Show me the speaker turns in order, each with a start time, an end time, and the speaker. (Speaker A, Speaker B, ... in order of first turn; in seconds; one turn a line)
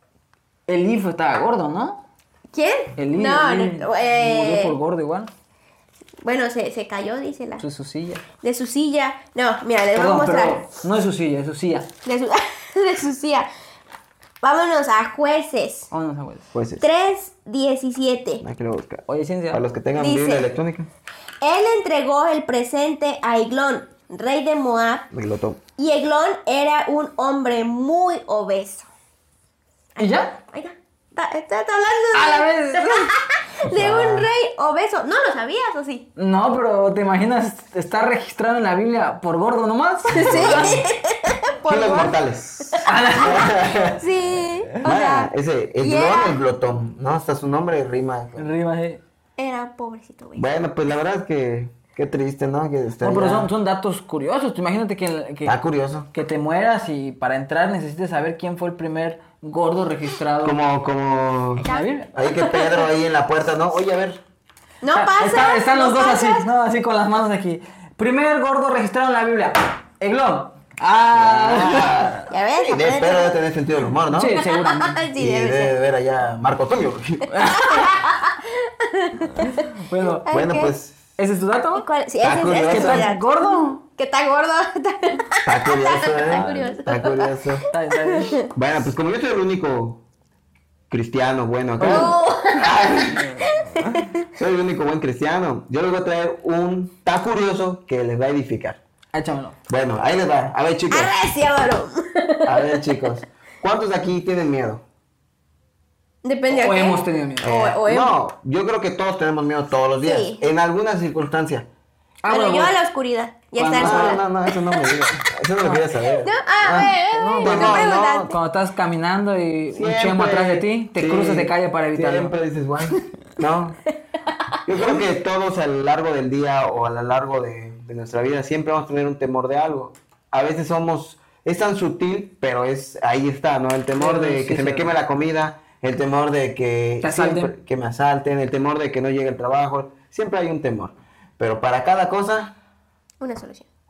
Speaker A: 0.7-2.0
Speaker B: 2.5-4.8
Speaker A: 3.0-5.3
Speaker B: 6.2-7.6
Speaker A: 7.6-8.2
Speaker B: 8.4-10.6
Speaker A: 9.9-11.9
Speaker B: 12.1-13.5
Speaker B: 14.4-15.9
Speaker A: 15.9-16.5
Speaker C: 16.5-16.8
Speaker B: 16.8-18.4
Speaker C: 18.4-20.9
Speaker A: 19.1-19.6
Speaker B: 20.0-20.4
Speaker B: 21.4-25.1
Speaker C: 25.1-25.6
Speaker B: 25.8-28.9
Speaker B: 30.0-36.1
Speaker A: 30.0-30.4
Speaker A: 32.1-33.1
Speaker C: 33.7-34.3
Speaker A: 36.2-40.8
Speaker C: 40.1-40.8
Speaker B: 40.1-42.9
Speaker C: 41.7-44.0
Speaker A: 42.9-43.6
Speaker B: 44.0-46.4
Speaker C: 44.8-48.5
Speaker A: 48.4-49.0
Speaker B: 49.4-50.5
Speaker C: 50.4-53.5
Speaker A: 53.0-55.6
Speaker C: 55.5-56.1
Speaker A: 56.1-60.6
Speaker C: 60.4-64.2
Speaker A: 61.6-62.1
Speaker B: 61.6-62.9
Speaker B: 64.8-66.5
Speaker A: 64.9-72.3
Speaker C: 71.2-74.4
Speaker B: 72.3-73.4
Speaker A: 74.1-75.0
Speaker B: 74.3-75.8
Speaker C: 75.2-77.3
Speaker A: 77.3-77.9
Speaker B: 77.5-79.8
Speaker A: 79.4-80.3
Speaker B: 80.3-80.8
Speaker C: 80.3-81.0
Speaker A: 81.2-81.8
Speaker B: 81.8-88.5
Speaker C: 82.2-83.1
Speaker A: 82.6-83.8
Speaker C: 85.5-87.6
Speaker A: 86.2-86.6
Speaker A: 87.7-88.4
Speaker C: 88.5-90.0
Speaker C: 90.9-93.3
Speaker A: 91.8-92.2
Speaker B: 91.8-94.2
Speaker A: 93.2-93.7
Speaker C: 94.3-98.8
Speaker A: 99.1-99.6
Speaker C: 99.7-101.1
Speaker B: 100.9-103.0
Speaker C: 102.5-104.8
Speaker B: 106.2-108.2
Speaker A: 106.5-107.5
Speaker C: 107.4-111.7
Speaker B: 110.0-110.5
Speaker A: 112.2-112.8
Speaker B: 112.3-115.0
Speaker A: 113.6-114.2
Speaker C: 113.7-118.0
Speaker A: 115.6-115.9
Speaker B: 116.2-118.4
Speaker A: 117.1-122.3
Speaker C: 119.7-123.8
Speaker C: 124.7-142.5
Speaker A: 133.9-135.0
Speaker A: 137.0-137.5
Speaker B: 143.2-143.7